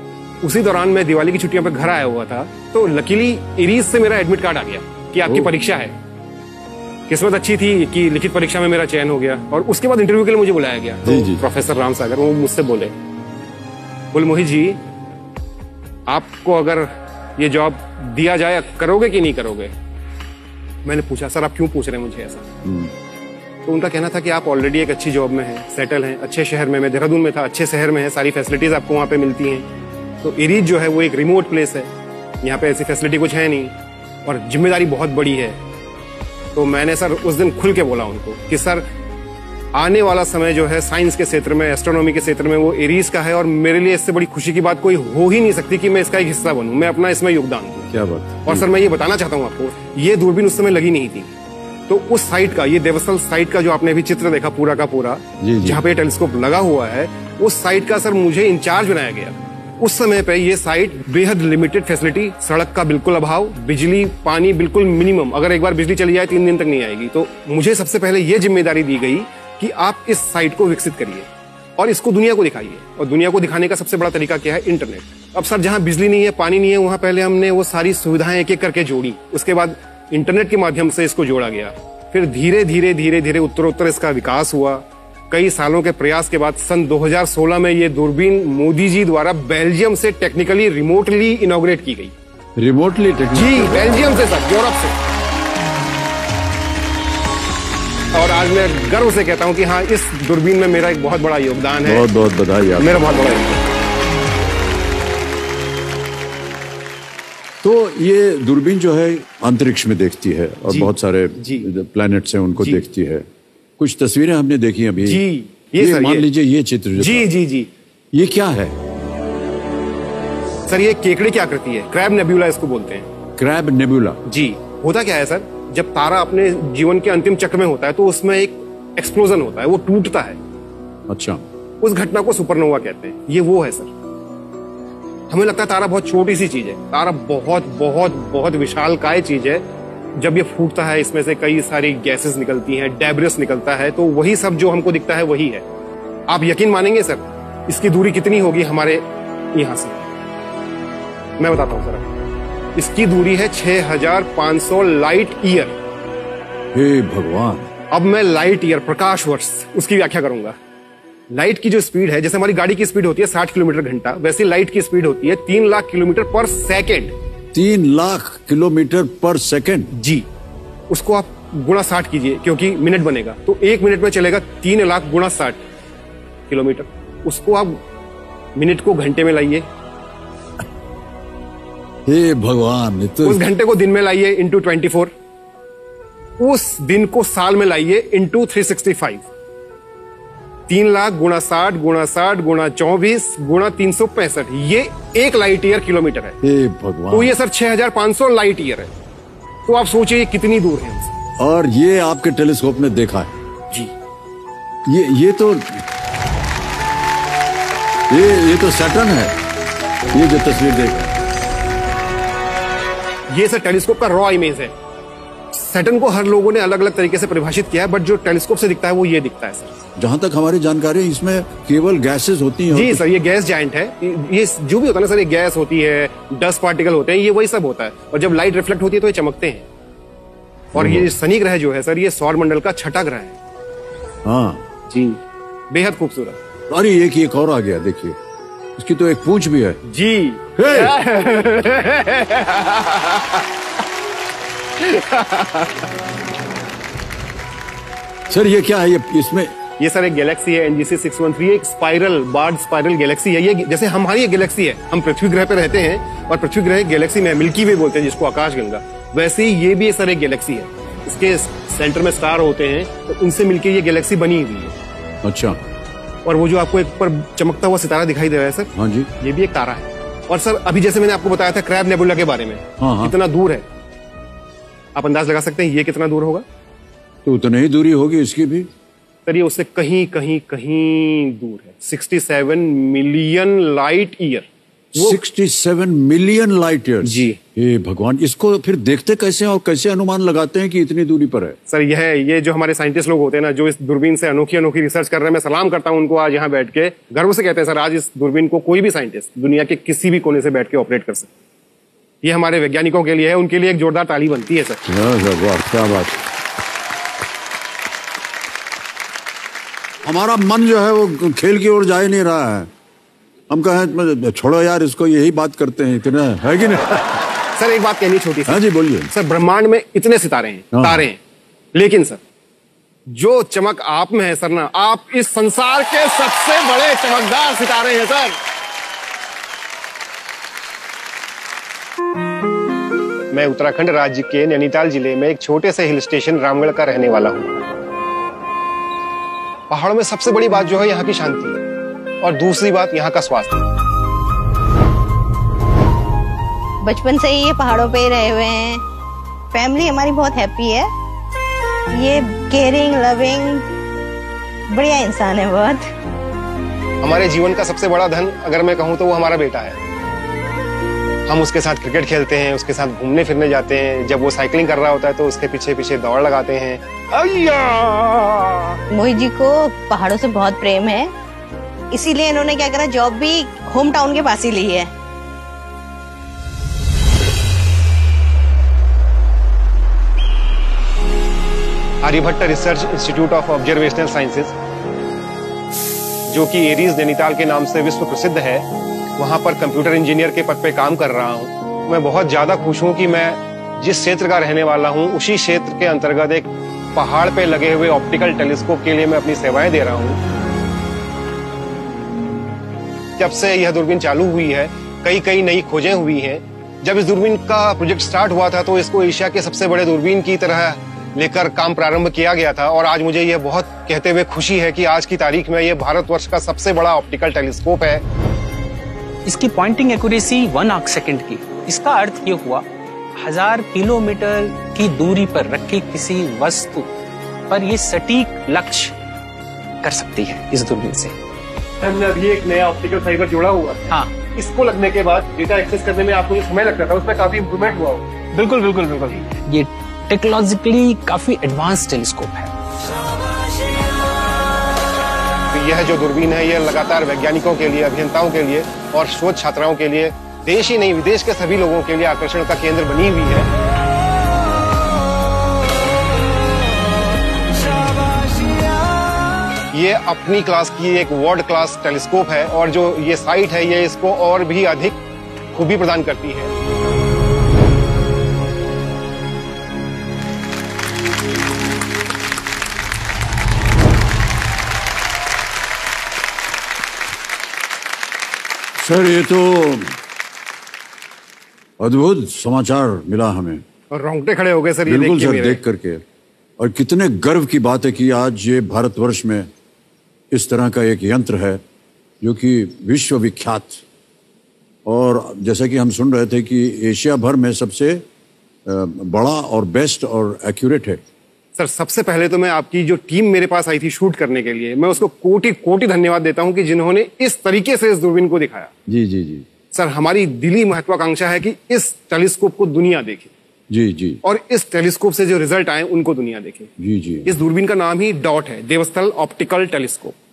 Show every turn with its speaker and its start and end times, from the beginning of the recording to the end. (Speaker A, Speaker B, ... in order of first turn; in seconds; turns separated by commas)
Speaker A: 0.4-5.9, Speaker A: 7.1-12.9, Speaker B: 11.0-11.4, Speaker A: 14.1-14.8, Speaker A: 16.1-19.7, Speaker A: 20.8-22.5, Speaker B: 22.6-22.9, Speaker A: 23.6-29.7, Speaker A: 30.2-31.9, Speaker A: 32.4-33.7, Speaker A: 34.2-35.6, Speaker A: 36.5-38.8, Speaker A: 39.7-47.9, Speaker B: 47.9-48.7, Speaker A: 48.5-51.3, Speaker A: 51.9-71.3, Speaker B: 55.4-55.8, Speaker A: 71.8-92.1, Speaker B: 92.6-94.2, Speaker A: 93.3-95.0, Speaker A: 98.1-102.1, Speaker B: 101.8-103.0, Speaker A: 102.8-103.6, Speaker B: 107.6-113.2, Speaker A: 110.7-111.7, Speaker B: 113.8-115.2, Speaker A: 115.0-116.3, Speaker B: 115.8-117.3, Speaker A: 117.0-117.7, Speaker B: 118.1-118.7, Speaker A: 120.7-123.1, Speaker B: 123.4-124.2, Speaker A: 124.2-130.4, Speaker B: 131.1-131.4, Speaker A: 131.8-133.9, Speaker A: 135.3-139.6, Speaker A: 140.2-145.6, Speaker A: 146.3-150.1, Speaker A: 151.4-152.2, Speaker A: 152.8-155.8, Speaker B: 156.7-157.7, Speaker A: 157.9-160.6, Speaker A: 161.3-167.1, Speaker B: 167.5-169.9, Speaker A: 169.9-170.2, Speaker A: 170.9-175.6, Speaker A: 176.5-177.8, Speaker A: 178.6-179.7, Speaker B: 182.1-183.4, Speaker A: 183.2-185.1, Speaker A: 186.4-189.3, Speaker A: 190.7-196.4, Speaker B: 196.4-197.4, Speaker A: 197.1-198.9, Speaker A: 199.7-201.2, Speaker B: 201.4-203.3, Speaker B: 204.8-205.8, Speaker B: 208.1-209.4, Speaker B: 210.1-211.2, Speaker A: 213.3-214.7, Speaker A: 215.5-219.8, Speaker B: 220.0-223.0, Speaker A: 222.7-229.7, Speaker A: 230.7-233.4, Speaker B: 230.7-231.1, Speaker B: 234.2-234.6, Speaker A: 234.9-235.2, Speaker A: 235.7-236.4, Speaker B: 236.7-238.2, Speaker B: 238.8-239.8, Speaker A: 239.8-243.5, Speaker B: 240.6-241.0, Speaker A: 244.8-245.8, Speaker B: 248.3-249.5, Speaker A: 249.8-264.7, Speaker B: 265.2-265.6, Speaker A: 266.2-273.6, Speaker B: 268.7-269.1, Speaker B: 272.8-273.1, Speaker A: 274.9-276.4, Speaker B: 277.2-278.7, Speaker A: 279.2-285.2, Speaker B: 284.9-291.6, Speaker A: 287.0-287.4, Speaker A: 291.7-301.3, Speaker A: 302.2-304.8, Speaker B: 304.9-306.2, Speaker B: 310.0-312.7, Speaker B: 313.5-317.2, Speaker A: 317.5-321.2, Speaker B: 318.5-319.1, Speaker B: 320.7-321.0, Speaker A: 321.7-322.2, Speaker A: 323.1-328.4, Speaker A: 333.3-337.6, Speaker A: 339.7-341.6, Speaker A: 342.2-343.6, Speaker C: 346.8-348.8, Speaker C: 349.5-350.9, Speaker C: 351.9-353.6, Speaker C: 354.7-355.9, Speaker A: 357.0-359.8, Speaker A: 361.3-368.8, Speaker C: 368.9-371.1, Speaker C: 371.9-374.9, Speaker A: 382.0-384.5, Speaker A: 386.3-400.2, Speaker A: 403.2-418.0, Speaker D: 419.2-422.6, Speaker D: 423.2-426.9, Speaker D: 427.5-428.9, Speaker D: 429.8-431.1, Speaker A: 431.8-439.3, Speaker D: 433.9-434.2, Speaker D: 438.4-442.5, Speaker A: 445.5-453.5, Speaker A: 459.7-465.0, Speaker A: 465.5-466.5, Speaker B: 478.8-479.9, Speaker B: 481.8-483.6, Speaker A: 483.9-485.6, Speaker B: 484.9-486.0, Speaker B: 486.6-489.5, Speaker B: 490.3-491.6, Speaker B: 492.2-493.8, Speaker B: 494.9-498.0, Speaker B: 498.6-501.0, Speaker A: 501.6-508.7, Speaker B: 508.9-509.4, Speaker A: 509.7-513.3, Speaker B: 513.7-514.2, Speaker A: 514.2-516.7, Speaker B: 516.8-517.3, Speaker A: 517.2-520.1